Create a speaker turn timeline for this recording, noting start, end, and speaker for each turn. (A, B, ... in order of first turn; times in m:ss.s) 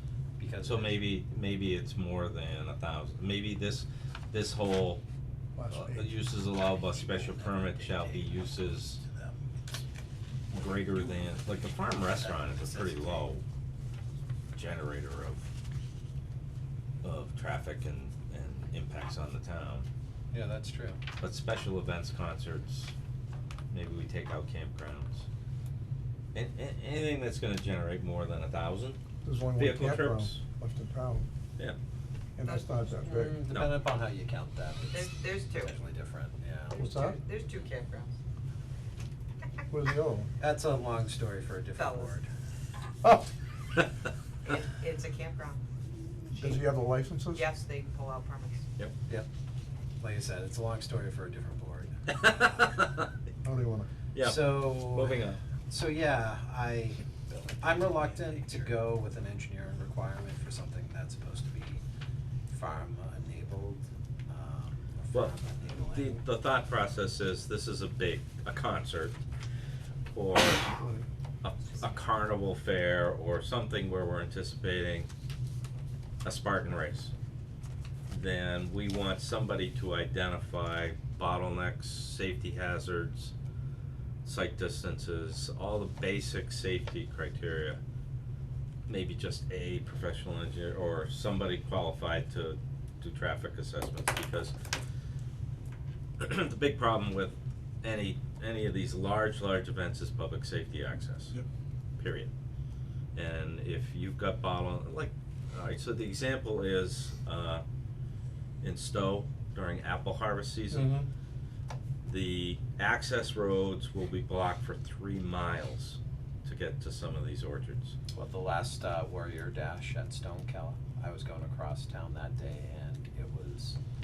0:00.4-0:01.1 A
0:00.6-0:05.0 B
0:05.6-0:06.1 C
0:05.7-0:09.0 B
0:06.8-0:09.8 A
0:10.5-0:13.4 B
0:12.0-0:13.3 A
0:14.5-0:15.5 B
0:17.0-0:19.8 B
0:20.3-0:21.0 A
0:21.2-0:22.9 B
0:23.7-0:25.2 B
0:26.3-0:29.0 B
0:29.2-0:31.3 C
0:29.5-0:30.4 B
0:32.4-0:33.4 C
0:32.4-0:33.3 D
0:33.1-0:36.8 A
0:34.9-0:35.7 D
0:36.7-0:38.1 D
0:36.7-0:37.2 C
0:39.7-0:40.3 C
0:40.4-0:42.3 A
0:41.8-0:42.1 D
0:43.0-0:43.3 C
0:44.4-0:45.6 D
0:46.4-0:47.4 C
0:47.3-0:48.6 D
0:50.0-0:52.0 A
0:52.1-0:53.1 B
0:53.4-0:53.9 C
0:54.1-0:55.4 B
0:54.2-0:57.0 A
0:57.5-0:58.6 B
0:57.6-1:01.8 A
1:02.5-1:06.2 A
1:05.1-1:09.2 B
1:10.1-1:10.7 B
1:10.6-1:11.0 C
1:11.4-1:15.1 B
1:16.2-1:17.1 B
1:18.1-1:23.3 B
1:24.2-1:27.8 B
1:28.9-1:34.5 B
1:36.2-1:41.4 B
1:42.0-1:42.3 B
1:43.1-1:47.6 B
1:48.6-1:50.9 B
1:50.7-1:51.1 C
1:52.0-1:58.0 B
1:58.1-2:03.8 A